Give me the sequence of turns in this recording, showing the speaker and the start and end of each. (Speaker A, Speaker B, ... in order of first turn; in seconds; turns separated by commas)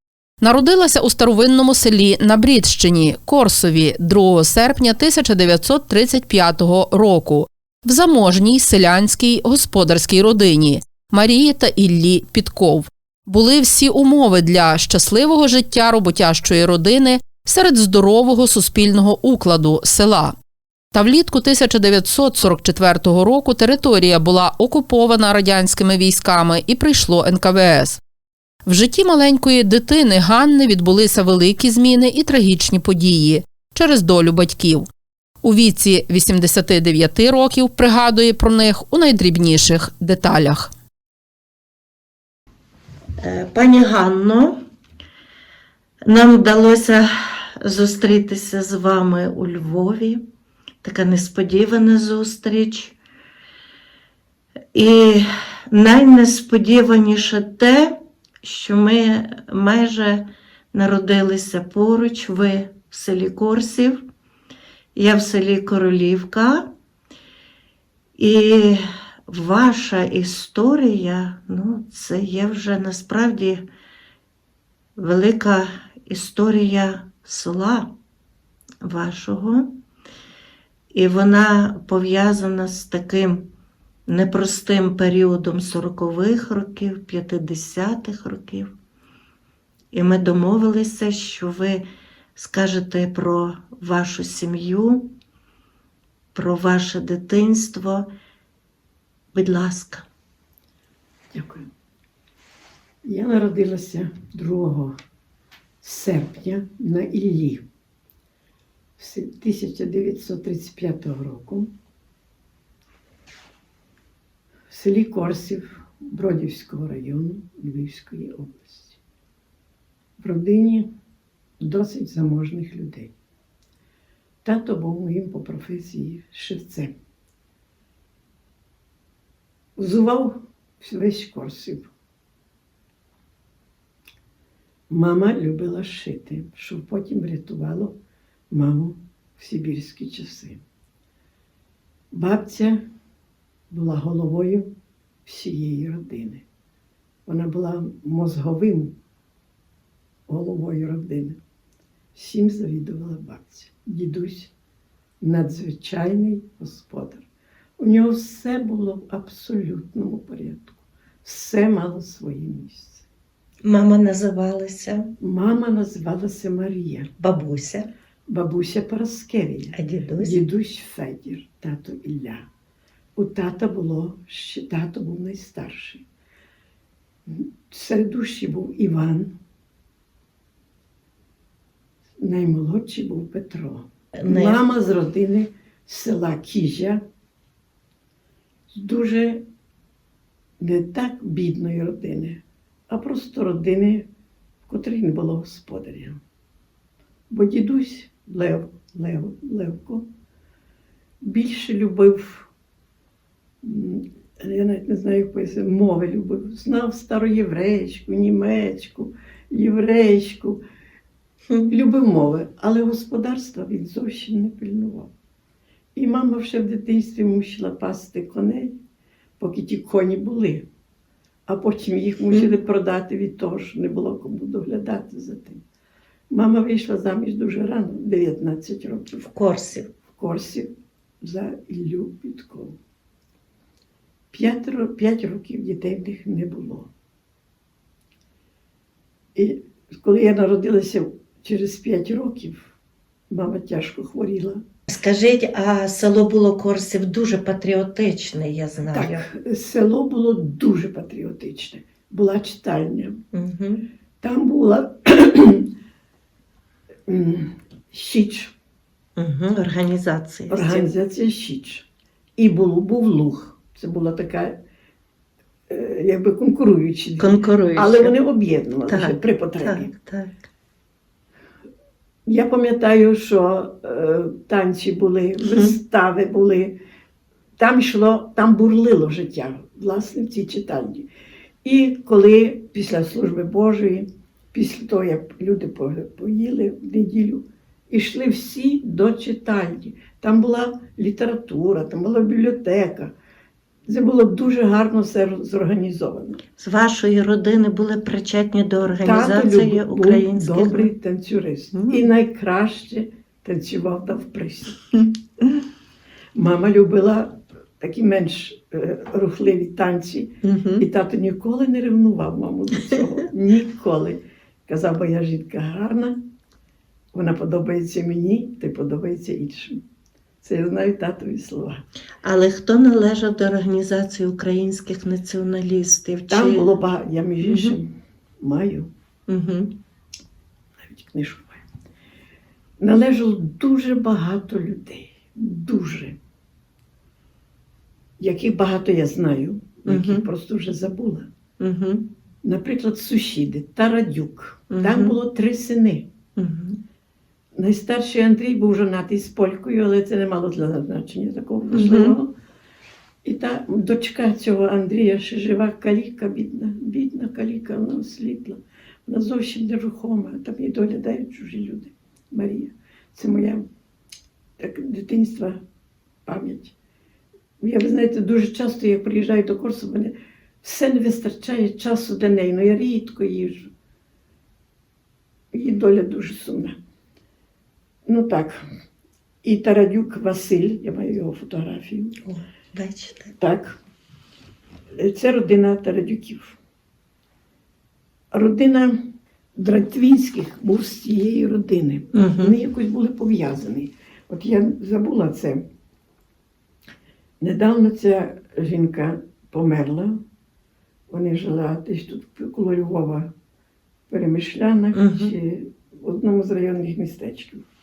Speaker A: 0.4-20.4, Speaker A: 20.9-28.0, Speaker A: 28.6-34.9, Speaker A: 35.4-40.7, Speaker B: 43.2-44.6, Speaker B: 46.0-50.2, Speaker B: 50.8-53.0, Speaker B: 54.7-64.0, Speaker B: 64.9-66.7, Speaker B: 68.2-73.6, Speaker B: 75.0-77.9, Speaker B: 78.8-79.7, Speaker B: 80.9-83.5, Speaker B: 84.0-88.7, Speaker B: 89.9-95.1, Speaker B: 96.3-98.1, Speaker B: 99.3-100.1, Speaker C: 101.3-101.7, Speaker C: 103.0-105.0, Speaker C: 105.8-107.6, Speaker C: 109.0-111.7, Speaker C: 114.7-119.0, Speaker C: 120.2-120.9, Speaker C: 121.6-123.1, Speaker C: 124.4-127.0, Speaker C: 129.8-131.9, Speaker C: 134.9-137.9, Speaker C: 138.5-140.6, Speaker C: 142.1-142.8, Speaker C: 143.7-144.7, Speaker C: 145.2-146.4, Speaker C: 147.2-148.9, Speaker C: 150.3-151.4, Speaker C: 152.1-154.5, Speaker C: 155.2-157.2, Speaker C: 157.8-163.1, Speaker B: 163.6-165.2, Speaker C: 165.2-167.1, Speaker B: 167.2-167.9, Speaker C: 168.3-172.4, Speaker B: 169.7-170.4, Speaker C: 173.2-176.0, Speaker C: 177.3-179.3, Speaker C: 182.2-187.0, Speaker B: 184.1-184.6, Speaker C: 188.7-189.4, Speaker C: 190.6-194.1, Speaker C: 194.7-196.2, Speaker C: 197.3-200.1, Speaker C: 201.2-202.5, Speaker C: 203.6-210.6, Speaker C: 211.7-215.1, Speaker C: 215.9-218.8, Speaker C: 219.4-220.7, Speaker C: 221.5-225.6, Speaker C: 226.3-229.2, Speaker B: 229.2-229.9, Speaker C: 230.1-232.8, Speaker C: 234.3-236.9, Speaker C: 239.3-242.7, Speaker C: 243.3-244.6, Speaker B: 244.9-249.2, Speaker C: 248.9-253.2, Speaker B: 253.3-253.8, Speaker C: 254.2-255.7, Speaker C: 257.1-258.5, Speaker B: 259.1-260.9, Speaker C: 260.5-264.6, Speaker C: 265.7-269.9, Speaker B: 267.2-268.1, Speaker B: 268.9-270.4, Speaker C: 272.2-276.8, Speaker B: 275.4-275.8, Speaker C: 277.6-281.1, Speaker C: 281.6-293.1, Speaker C: 293.9-296.4, Speaker B: 296.6-300.9, Speaker C: 299.0-304.9, Speaker B: 301.7-302.1, Speaker C: 306.4-316.2, Speaker B: 310.4-310.8, Speaker C: 317.1-319.8, Speaker C: 320.4-321.8, Speaker B: 322.2-326.7, Speaker C: 326.3-328.9, Speaker B: 327.4-327.8, Speaker B: 329.3-329.7, Speaker C: 330.8-331.6, Speaker C: 332.8-336.2, Speaker C: 338.2-341.3, Speaker B: 339.9-340.3, Speaker B: 341.6-342.1, Speaker C: 342.4-346.1, Speaker B: 344.7-345.2, Speaker B: 346.4-346.8, Speaker C: 347.5-352.3, Speaker B: 351.7-352.2, Speaker C: 353.2-363.6, Speaker C: 364.6-365.6, Speaker C: 366.2-366.7, Speaker C: 367.6-373.7, Speaker C: 375.5-376.8, Speaker C: 378.1-378.6, Speaker C: 379.4-382.2, Speaker B: 382.2-383.3, Speaker C: 383.4-383.8, Speaker C: 384.9-386.6, Speaker C: 388.3-395.6, Speaker B: 392.1-392.5, Speaker C: 397.4-400.2, Speaker C: 401.1-403.3, Speaker C: 404.1-407.6, Speaker B: 404.9-405.3